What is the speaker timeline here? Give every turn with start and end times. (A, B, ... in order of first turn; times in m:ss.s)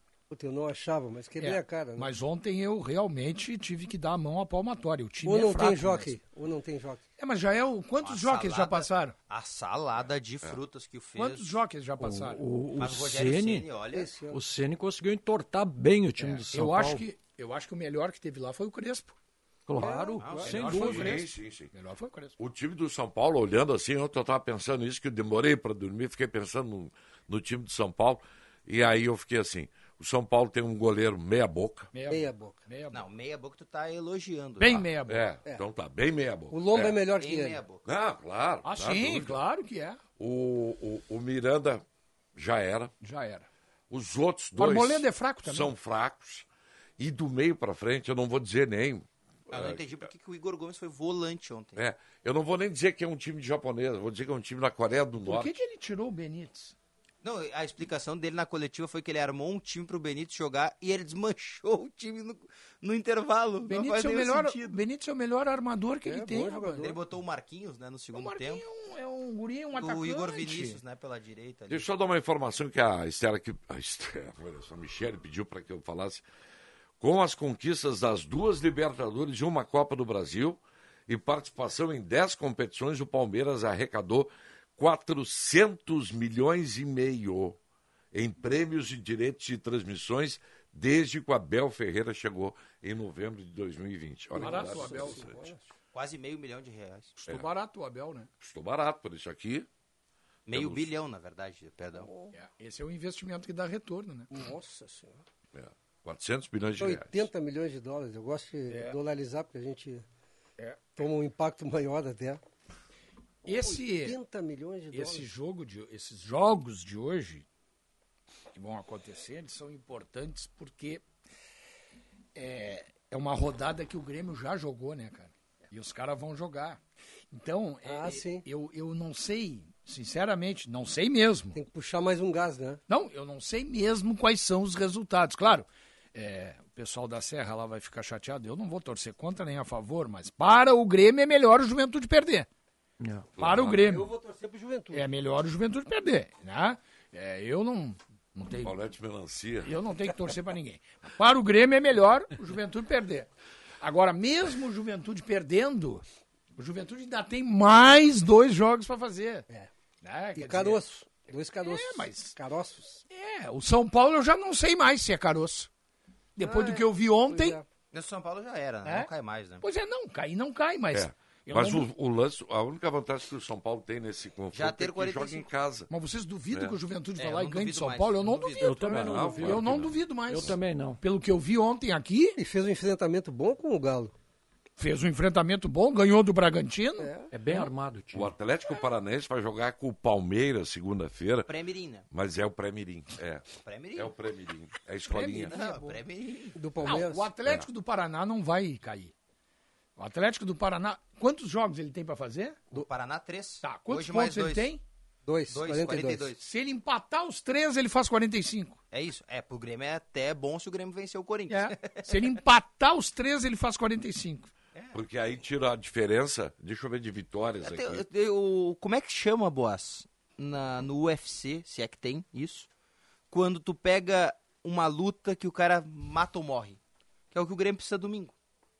0:00.3-0:02.1 A
0:01.4-0:06.2 B
0:05.2-0:07.0 A
0:07.2-0:09.1 B
0:08.0-0:11.6 C
0:11.2-0:12.4 B
0:12.0-0:13.7 D
0:12.8-0:14.1 C
0:13.9-0:14.4 A
0:14.3-0:17.0 D
0:16.5-0:19.2 B
0:19.7-0:21.1 D
0:19.8-0:20.7 A
0:20.2-0:20.7 C
0:20.4-0:22.4 B
0:20.7-0:21.7 E
0:22.4-0:31.9 E
0:31.9-0:33.0 B
0:32.1-0:32.6 A
0:32.9-0:34.8 C
0:34.6-0:35.2 B
0:35.1-0:37.0 E
0:36.5-0:37.6 A
0:37.2-0:37.8 C
0:37.8-0:39.4 E
0:38.6-0:40.0 B
0:40.2-0:41.8 E
0:42.4-0:42.9 E
0:43.0-0:43.5 B
0:43.9-0:46.4 E
0:44.6-0:45.7 B
0:47.0-0:49.8 E
0:49.5-0:51.8 C
0:51.8-0:55.5 E
0:55.2-0:56.7 B
0:57.2-1:04.8 C
1:03.7-1:06.9 B
1:06.0-1:07.0 A
1:06.8-1:08.6 C
1:08.1-1:10.8 B
1:09.8-1:11.8 C
1:11.7-1:16.2 E
1:17.0-1:27.6 E
1:28.1-1:35.4 E
1:34.3-1:35.7 A
1:34.4-1:35.3 B
1:35.9-1:37.2 C
1:37.2-1:38.3 B
1:38.4-1:39.7 E
1:40.5-1:42.1 C
1:40.5-1:40.9 E
1:42.0-1:42.3 A
1:42.3-1:44.3 B
1:44.3-1:45.2 A
1:45.5-1:47.3 E
1:46.8-1:50.0 A
1:48.7-1:49.0 B
1:50.9-1:52.4 A
1:53.4-1:54.2 B
1:53.4-1:55.3 A
1:54.9-1:57.4 B
1:58.5-2:01.0 B
2:02.3-2:06.8 B
2:07.3-2:11.6 B
2:07.8-2:08.4 A
2:11.5-2:12.8 A
2:12.9-2:22.5 B
2:23.0-2:23.3 D
2:23.4-2:23.9 E
2:23.4-2:24.1 B
2:23.7-2:25.1 A
2:24.9-2:28.7 B
2:28.6-2:29.7 E
2:29.6-2:33.3 B
2:33.8-2:36.0 B
2:36.6-2:39.5 B
2:40.0-2:40.8 B
2:40.3-2:43.0 A
2:41.6-2:42.4 B
2:43.1-2:45.7 B
2:46.4-2:47.6 B
2:46.4-2:47.6 A
2:47.9-2:49.6 C
2:49.6-2:51.9 B
2:50.9-2:55.9 E
2:54.5-2:55.5 C
2:55.9-3:02.4 B
2:57.2-2:58.9 C
2:58.6-3:01.0 D
2:58.9-3:00.5 E
3:02.4-3:04.1 A
3:04.8-3:07.7 B
3:07.0-3:07.3 A
3:07.3-3:08.3 D
3:08.1-3:11.5 E
3:11.4-3:12.0 C
3:12.1-3:15.5 E
3:13.6-3:14.1 C
3:15.1-3:15.7 B
3:15.4-3:16.6 C
3:16.5-3:17.3 A
3:16.8-3:19.1 B
3:20.0-3:22.7 B
3:22.7-3:24.7 C
3:23.6-3:24.8 B
3:25.2-3:26.3 A
3:25.5-3:26.4 C
3:26.4-3:28.8 B
3:28.9-3:32.1 C
3:31.5-3:34.5 B
3:34.9-3:38.0 E
3:37.6-3:42.7 C
3:43.3-3:46.8 C
3:47.3-3:48.3 C